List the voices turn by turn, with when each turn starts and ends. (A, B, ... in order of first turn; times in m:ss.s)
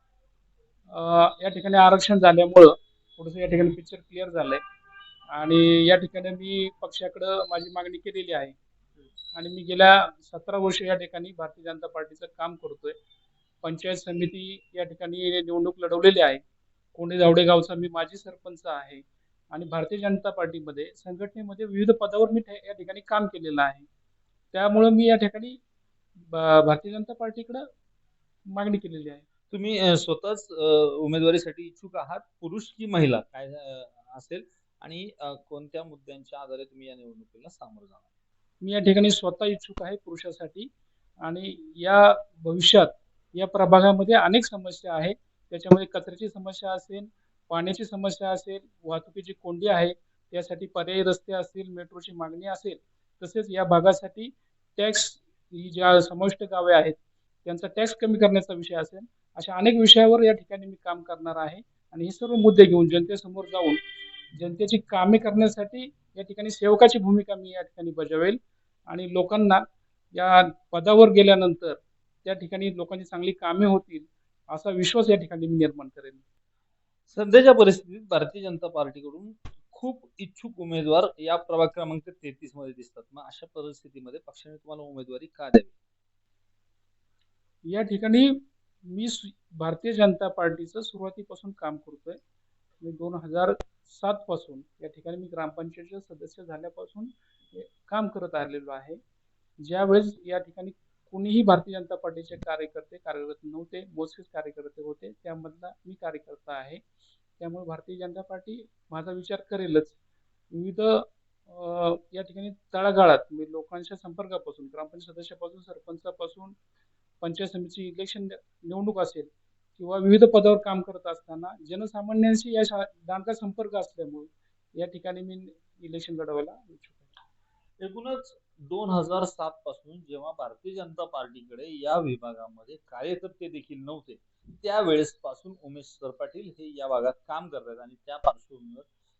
0:00.9-0:04.6 A
0:05.3-0:08.6 A
0:09.3-0:13.0 A
0:13.6-0:16.4 A
0:16.9-0:23.8 A
0:24.5-0:25.6 A
0:26.3-0:27.6 A
0:28.5-0:29.2 A
0:29.5-0:38.0 B
0:38.6-0:40.7 A
0:41.2-1:03.8 A
1:04.3-1:09.6 A
1:10.1-1:16.2 A
1:17.1-1:25.7 B
1:27.7-1:32.2 A
1:32.8-1:39.0 A
1:39.6-1:46.8 A
1:47.4-1:49.9 A
1:50.5-1:56.6 A
1:57.2-2:07.1 A
2:07.8-2:18.9 B